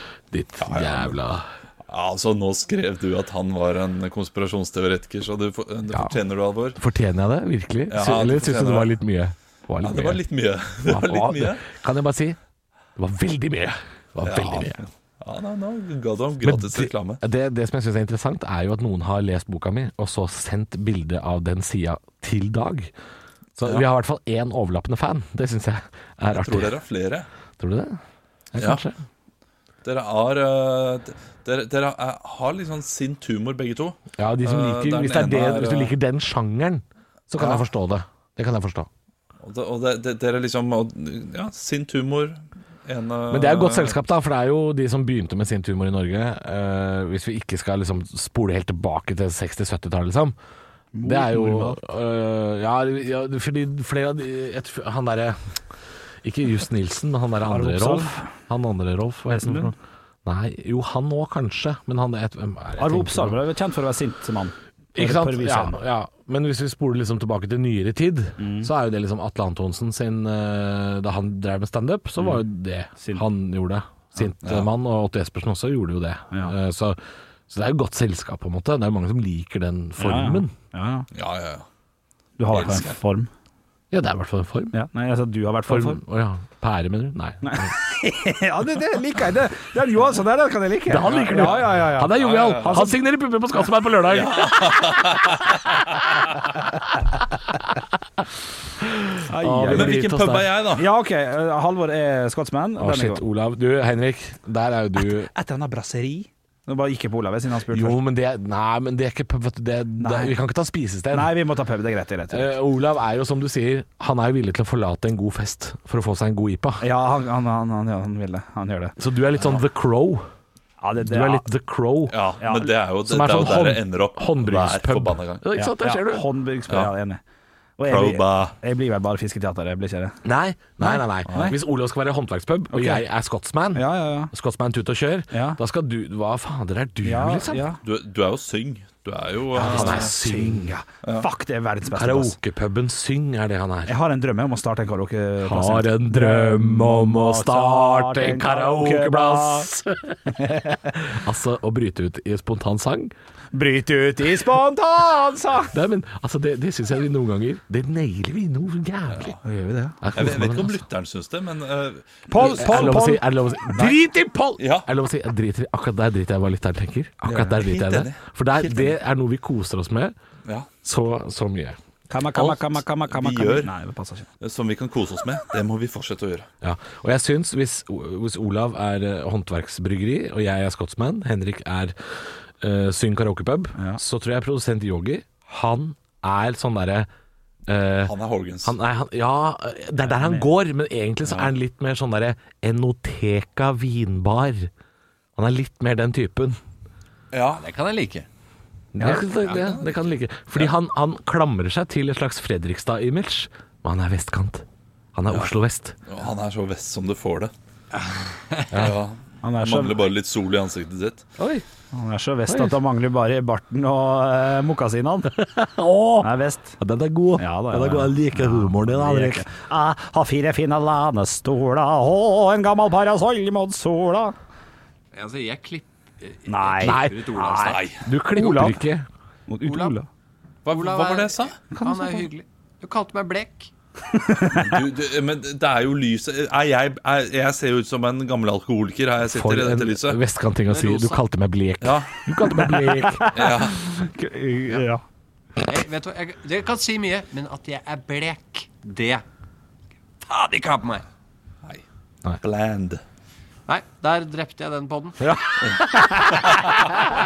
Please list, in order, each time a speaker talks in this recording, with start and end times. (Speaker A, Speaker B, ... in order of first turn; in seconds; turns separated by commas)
Speaker A: 0.3-1.4, Speaker B: 0.6-1.1, Speaker B: 1.9-6.8, Speaker A: 6.8-10.2, Speaker B: 7.9-8.9, Speaker B: 9.8-11.6, Speaker A: 10.8-12.4, Speaker A: 12.9-14.9, Speaker B: 14.2-17.2, Speaker A: 16.4-22.9, Speaker A: 23.6-26.7, Speaker B: 26.3-27.3, Speaker A: 27.6-28.0, Speaker A: 28.5-29.0, Speaker B: 28.6-28.8, Speaker B: 29.8-35.9, Speaker A: 34.2-38.9, Speaker B: 37.4-37.6, Speaker B: 39.4-44.0, Speaker A: 43.3-50.3, Speaker C: 50.9-51.8, Speaker A: 51.0-55.5, Speaker A: 56.2-59.7, Speaker C: 57.5-58.3, Speaker C: 59.3-59.7, Speaker A: 60.2-63.4, Speaker C: 62.8-65.8, Speaker A: 64.9-77.0, Speaker C: 68.4-68.7, Speaker C: 73.0-73.2, Speaker A: 77.5-80.5, Speaker C: 80.0-81.1, Speaker B: 81.1-81.6, Speaker C: 82.4-83.3, Speaker B: 82.5-83.0, Speaker A: 83.9-84.8, Speaker C: 84.7-86.0, Speaker A: 85.7-87.8, Speaker C: 87.4-92.9, Speaker A: 90.9-95.8, Speaker B: 92.1-92.9, Speaker B: 94.1-95.6, Speaker A: 97.5-97.8, Speaker A: 98.8-100.5, Speaker C: 99.3-100.0, Speaker B: 99.7-100.8, Speaker C: 100.7-103.2, Speaker A: 102.8-105.3, Speaker C: 105.0-108.0, Speaker A: 107.7-111.3, Speaker C: 110.0-110.3, Speaker C: 111.1-112.5, Speaker A: 112.3-116.8, Speaker C: 116.8-119.0, Speaker A: 119.0-120.2, Speaker C: 120.8-121.5, Speaker A: 121.0-122.2, Speaker B: 122.1-125.4, Speaker C: 122.4-122.7, Speaker A: 123.0-126.2, Speaker C: 125.5-127.2, Speaker C: 127.8-130.2, Speaker B: 127.9-128.6, Speaker A: 130.2-137.7, Speaker C: 130.8-131.6, Speaker C: 132.7-133.0, Speaker C: 133.7-134.3, Speaker C: 135.3-135.6, Speaker C: 137.0-137.8, Speaker B: 137.8-140.1, Speaker C: 139.5-142.4, Speaker A: 139.6-140.7, Speaker A: 141.9-143.9, Speaker C: 143.9-149.7, Speaker A: 145.4-153.1, Speaker C: 150.3-150.9, Speaker C: 153.5-155.7, Speaker A: 155.7-159.4, Speaker B: 159.1-159.3, Speaker C: 159.4-160.0, Speaker A: 160.0-160.8, Speaker B: 160.1-163.0, Speaker C: 162.3-163.2, Speaker A: 162.4-170.1, Speaker B: 164.6-164.9, Speaker C: 167.2-167.6, Speaker B: 167.6-169.0, Speaker A: 170.8-171.8, Speaker C: 172.1-174.3, Speaker B: 172.4-173.7, Speaker B: 174.4-176.5, Speaker A: 176.6-181.9, Speaker A: 182.6-187.1, Speaker A: 187.7-188.1, Speaker B: 188.0-188.7, Speaker A: 188.6-194.7, Speaker C: 190.0-190.5, Speaker A: 195.3-196.6, Speaker B: 197.3-197.6, Speaker D: 197.6-198.3, Speaker C: 198.9-199.2, Speaker A: 199.0-205.9, Speaker B: 199.1-200.7, Speaker B: 206.1-207.5, Speaker D: 208.0-208.6, Speaker A: 208.7-208.9, Speaker B: 208.8-211.2, Speaker C: 209.4-210.0, Speaker A: 211.4-211.6, Speaker C: 211.9-215.3, Speaker A: 212.5-212.7, Speaker A: 215.3-219.5, Speaker C: 216.2-216.8, Speaker C: 217.4-224.3, Speaker D: 225.1-227.9, Speaker C: 226.5-227.8, Speaker A: 226.8-227.2, Speaker B: 227.4-228.0, Speaker A: 228.0-229.1, Speaker C: 228.3-228.8, Speaker C: 229.5-230.1, Speaker D: 229.6-229.9, Speaker B: 230.6-231.6, Speaker D: 230.7-233.7, Speaker C: 231.7-232.3, Speaker C: 234.1-234.8, Speaker B: 234.5-240.2, Speaker A: 239.3-243.3, Speaker D: 240.7-241.2, Speaker B: 241.8-242.1, Speaker C: 242.5-245.0, Speaker B: 243.3-243.8, Speaker D: 245.6-249.2, Speaker D: 250.2-251.0, Speaker B: 252.4-253.0, Speaker D: 253.7-255.2, Speaker C: 255.2-256.6